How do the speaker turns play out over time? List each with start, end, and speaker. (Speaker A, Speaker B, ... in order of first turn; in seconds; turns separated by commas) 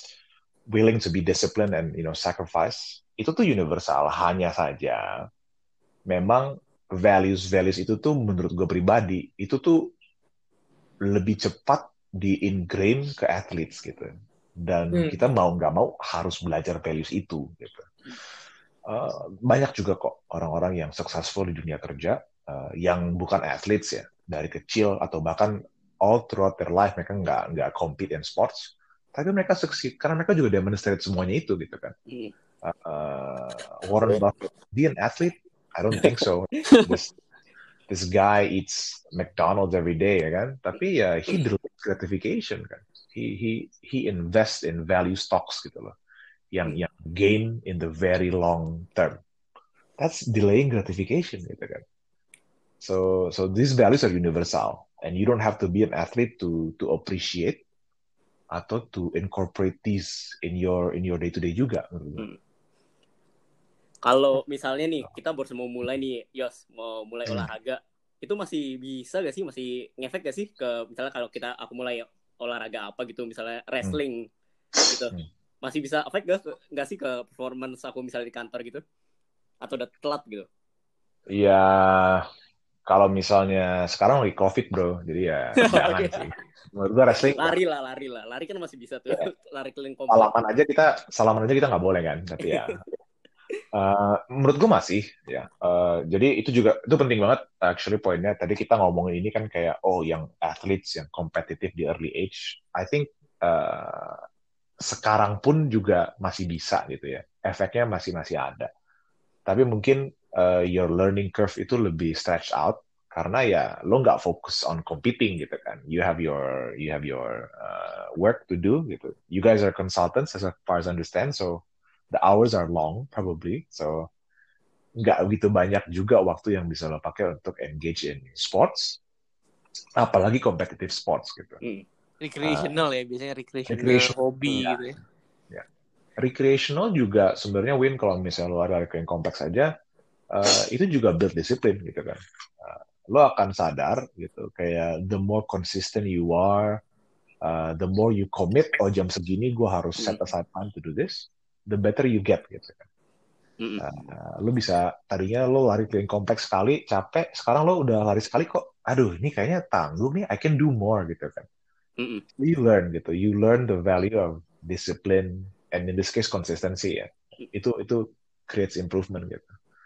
Speaker A: 0.7-5.0, Speaker A: 6.1-9.8, Speaker A: 11.1-14.1, Speaker A: 14.6-17.8, Speaker B: 14.9-15.2, Speaker A: 18.9-31.9, Speaker A: 32.6-37.1, Speaker C: 36.0-36.9, Speaker A: 37.9-45.9, Speaker A: 46.5-49.2, Speaker A: 50.0-51.8, Speaker A: 52.8-57.6, Speaker A: 58.5-62.2, Speaker C: 64.0-74.3, Speaker C: 74.9-78.8, Speaker C: 79.6-80.5, Speaker A: 81.3-82.2, Speaker A: 82.9-87.5, Speaker C: 85.6-86.3, Speaker C: 87.3-90.3, Speaker A: 90.1-92.8, Speaker A: 93.7-104.2, Speaker A: 104.8-108.7, Speaker A: 109.5-124.1, Speaker A: 125.0-129.0, Speaker A: 130.0-131.6, Speaker B: 132.2-134.9, Speaker A: 132.4-132.8, Speaker A: 133.7-134.8, Speaker A: 136.2-139.7, Speaker A: 140.3-146.8, Speaker A: 147.4-152.8, Speaker A: 153.8-161.4, Speaker C: 162.0-162.2, Speaker A: 162.4-169.5